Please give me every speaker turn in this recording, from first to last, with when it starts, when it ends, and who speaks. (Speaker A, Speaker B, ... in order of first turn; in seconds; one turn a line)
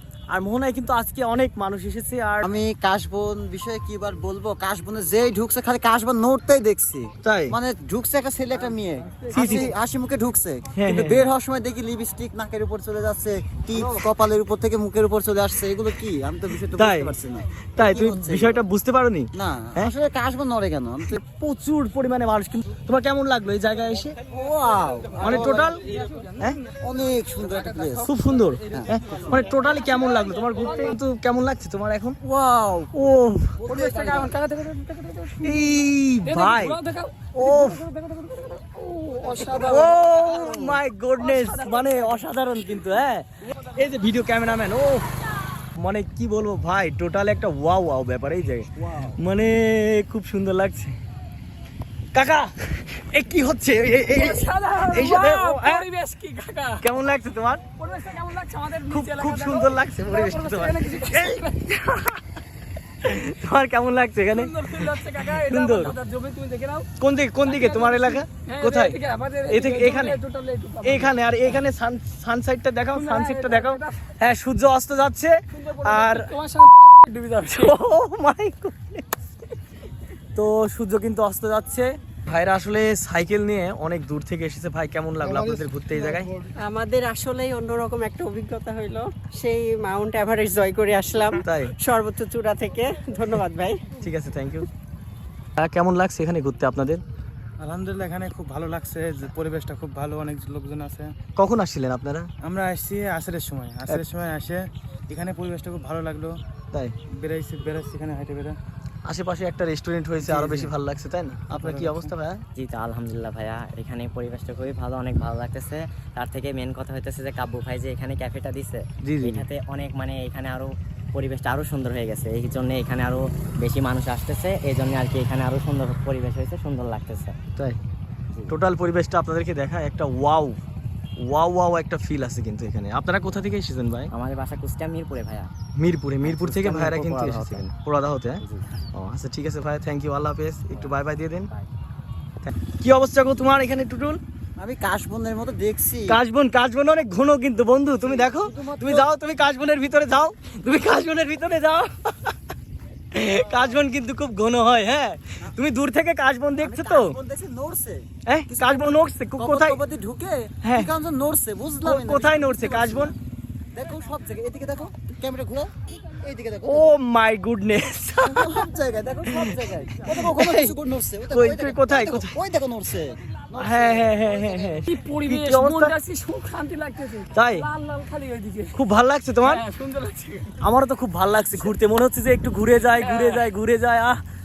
Speaker A: 0.3-2.5
Speaker B: 2.4-18.6
Speaker A: 7.2-7.5
Speaker A: 9.3-9.7
Speaker A: 10.8-11.2
Speaker A: 16.8-17.1
Speaker A: 17.8-19.9
Speaker B: 19.4-21.2
Speaker A: 21.1-24.2
Speaker B: 24.3-25.8
Speaker A: 25.2-25.8
Speaker C: 25.8-26.7
Speaker B: 26.8-28.1
Speaker C: 27.4-28.1
Speaker A: 28.1-32.2
Speaker B: 28.7-29.2
Speaker C: 29.2-31.0
Speaker B: 32.2-32.9
Speaker A: 32.9-33.6
Speaker B: 33.6-34.3
Speaker C: 33.7-42.3
Speaker A: 35.4-36.8
Speaker A: 37.4-37.8
Speaker A: 39.6-45.1
Speaker A: 45.8-51.0
Speaker B: 48.8-49.2
Speaker A: 52.1-55.9
Speaker C: 54.1-56.8
Speaker A: 56.8-57.6
Speaker C: 57.8-62.2
Speaker A: 58.9-61.4
Speaker A: 63.0-65.9
Speaker C: 64.3-66.9
Speaker A: 67.0-69.0
Speaker C: 67.4-71.6
Speaker A: 69.5-70.2
Speaker A: 70.8-76.3
Speaker C: 72.9-74.0
Speaker C: 75.5-77.8
Speaker A: 77.5-79.0
Speaker A: 80.4-86.3
Speaker D: 86.6-93.8
Speaker A: 91.4-91.7
Speaker A: 94.0-94.7
Speaker A: 95.6-97.0
Speaker E: 97.6-101.2
Speaker A: 101.4-102.3
Speaker E: 102.4-106.3
Speaker E: 107.1-108.6
Speaker A: 109.1-112.4
Speaker E: 110.2-110.7
Speaker E: 111.5-112.1
Speaker F: 112.6-127.4
Speaker A: 119.0-119.5
Speaker A: 128.5-130.6
Speaker A: 131.2-134.1
Speaker F: 134.1-135.5
Speaker A: 135.8-138.4
Speaker F: 136.2-137.7
Speaker A: 138.9-141.5
Speaker A: 142.4-144.2
Speaker B: 144.6-146.2
Speaker A: 146.1-152.4
Speaker B: 148.0-149.1
Speaker A: 153.1-157.2
Speaker B: 156.6-163.1
Speaker A: 158.3-159.8
Speaker A: 160.6-160.9
Speaker A: 161.8-163.1
Speaker B: 163.8-166.9
Speaker A: 166.7-168.7
Speaker B: 168.3-174.8
Speaker A: 169.3-169.5
Speaker A: 170.1-170.7
Speaker A: 171.3-172.3
Speaker A: 173.6-175.9
Speaker C: 174.9-178.8
Speaker A: 177.3-177.7
Speaker A: 178.8-179.6
Speaker C: 179.4-180.6
Speaker A: 180.6-184.2
Speaker C: 182.9-183.5